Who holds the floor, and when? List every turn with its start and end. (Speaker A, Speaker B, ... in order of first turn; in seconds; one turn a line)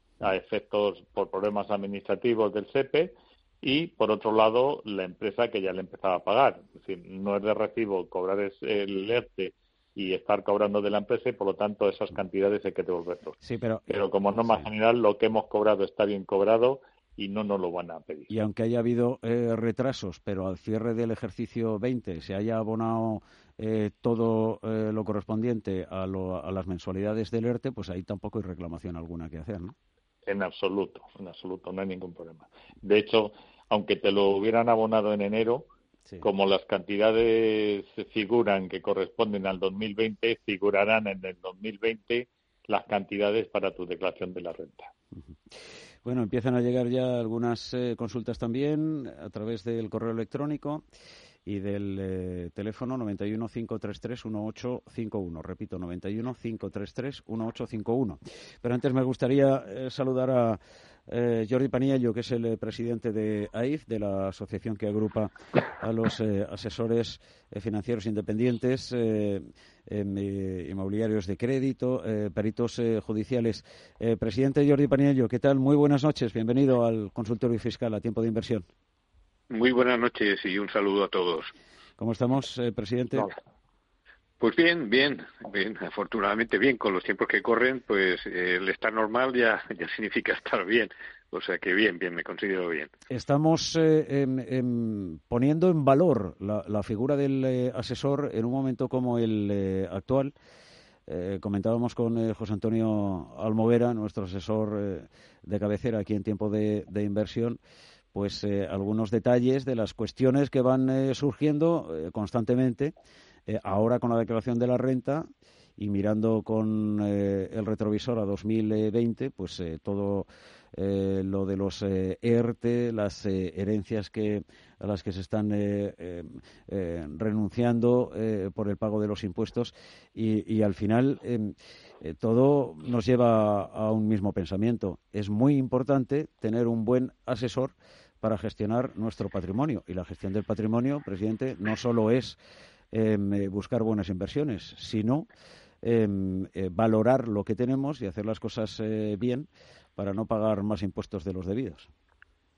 Speaker A: 0.2-13.4
Speaker B: 13.4-14.7
Speaker A: 13.9-18.3
Speaker B: 18.3-29.8
Speaker A: 30.2-35.7
Speaker A: 36.2-44.9
Speaker B: 46.0-50.9
Speaker B: 51.5-78.7
Speaker C: 79.5-81.5
Speaker B: 82.0-83.3
Speaker C: 84.4-92.9
Speaker B: 93.1-100.3
Speaker B: 101.1-107.6
Speaker B: 108.1-112.9
Speaker B: 113.5-142.4
Speaker B: 142.9-145.3
Speaker B: 145.8-151.9